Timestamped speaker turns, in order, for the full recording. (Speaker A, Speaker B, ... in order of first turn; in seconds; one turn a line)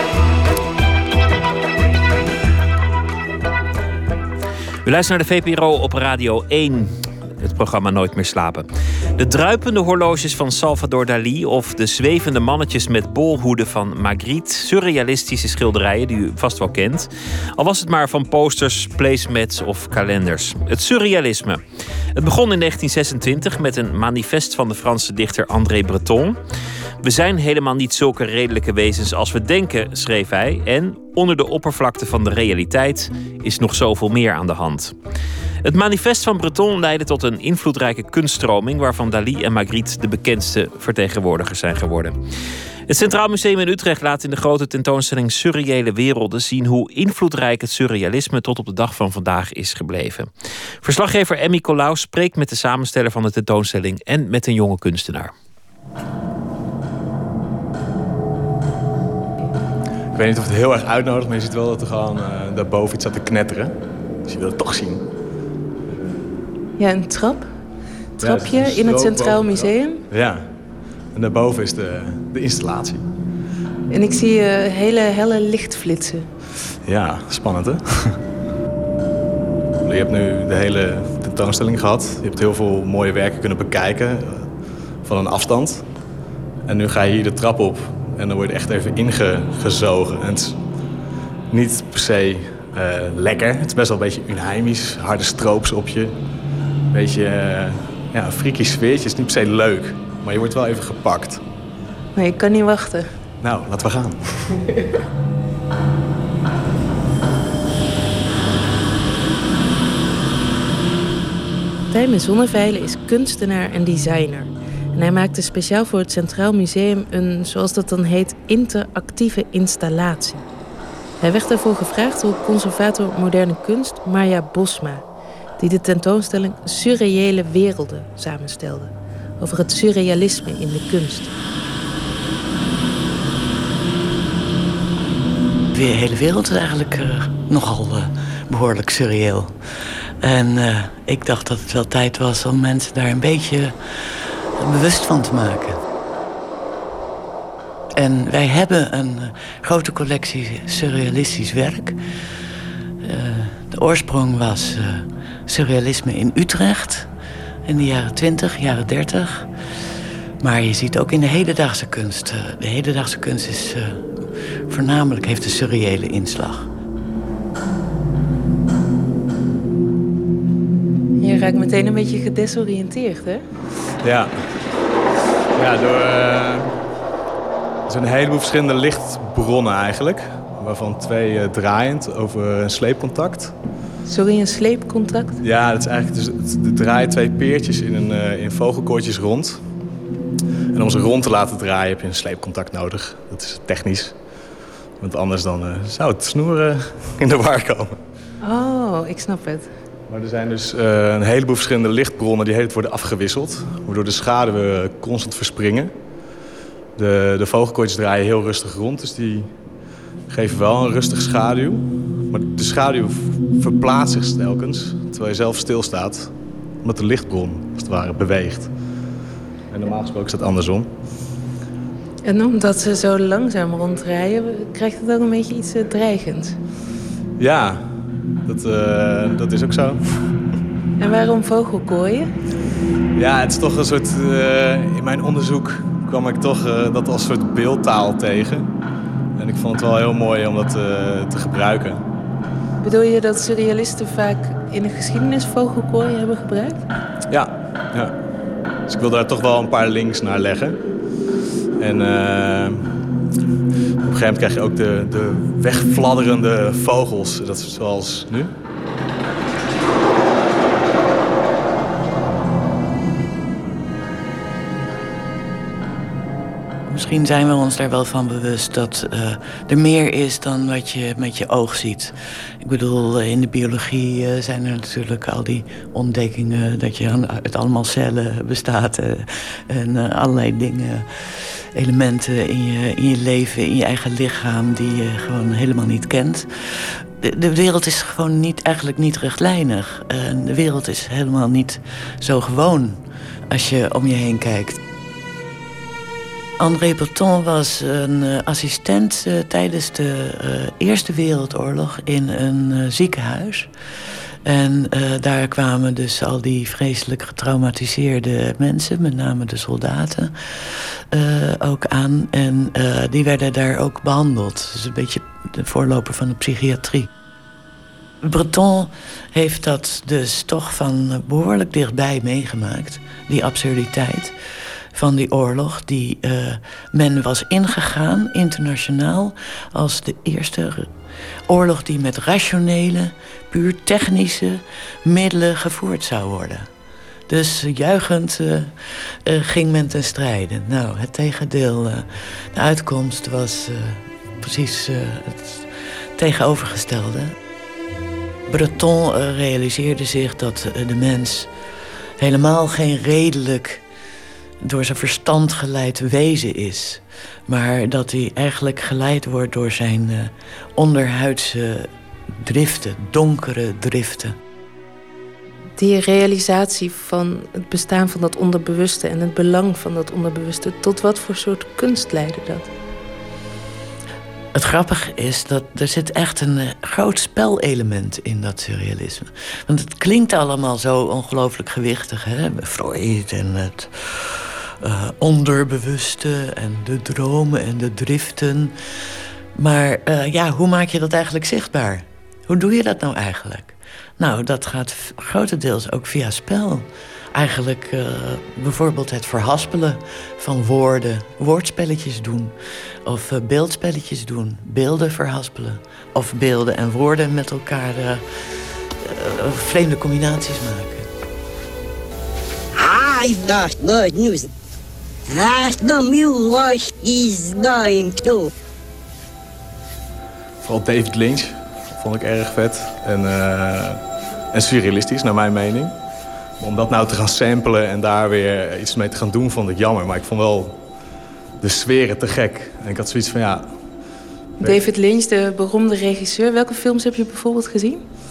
Speaker A: 4.8-21.6
Speaker A: 22.1-26.4
Speaker A: 27.0-35.0
Speaker A: 35.6-42.2
Speaker A: 42.9-55.3
Speaker B: 60.1-65.1
Speaker C: 66.8-67.6
Speaker C: 68.2-70.0
Speaker B: 68.2-70.5
Speaker B: 71.1-73.0
Speaker C: 73.9-76.3
Speaker B: 76.8-78.2
Speaker B: 79.8-84.5
Speaker B: 85.0-85.8
Speaker B: 86.7-90.6
Speaker B: 91.5-96.2
Speaker B: 96.9-101.4
Speaker C: 102.2-103.1
Speaker B: 103.4-104.5
Speaker C: 111.9-120.5
Speaker C: 121.2-125.0
Speaker C: 125.6-131.3
Speaker D: 135.7-139.6
Speaker D: 140.2-145.8
Speaker D: 148.0-152.0
Speaker D: 153.0-157.1
Speaker D: 157.7-159.5
Speaker D: 160.4-166.7
Speaker C: 171.2-173.4
Speaker B: 174.0-174.4
Speaker B: 175.5-176.7
Speaker B: 177.9-183.5
Speaker C: 184.1-185.4
Speaker B: 185.4-189.6
Speaker B: 190.7-194.2
Speaker B: 195.0-198.0
Speaker C: 198.4-199.7
Speaker B: 200.1-205.9
Speaker B: 207.0-209.5
Speaker B: 210.3-216.3
Speaker B: 216.8-218.7
Speaker B: 219.7-220.9
Speaker C: 222.2-226.6
Speaker B: 227.4-230.2
Speaker C: 231.0-232.3
Speaker B: 233.2-238.7
Speaker B: 239.4-242.0
Speaker C: 242.8-246.8
Speaker B: 247.3-248.1
Speaker B: 248.9-250.8
Speaker B: 251.8-252.9
Speaker B: 254.1-258.5
Speaker D: 266.9-294.8
Speaker D: 296.6-303.7
Speaker D: 304.5-317.1
Speaker D: 318.2-324.4
Speaker D: 324.9-330.9
Speaker D: 331.5-336.7
Speaker D: 337.3-338.7
Speaker D: 339.2-347.4
Speaker D: 348.5-351.5
Speaker D: 352.2-353.8
Speaker D: 354.6-364.4
Speaker C: 365.8-372.7
Speaker D: 374.5-388.7
Speaker D: 389.6-402.5
Speaker D: 403.1-411.1
Speaker E: 412.8-414.5
Speaker E: 415.3-418.5
Speaker B: 420.6-424.0
Speaker B: 424.5-425.9
Speaker B: 426.6-430.8
Speaker B: 431.6-433.8
Speaker B: 434.6-434.9
Speaker C: 434.6-438.0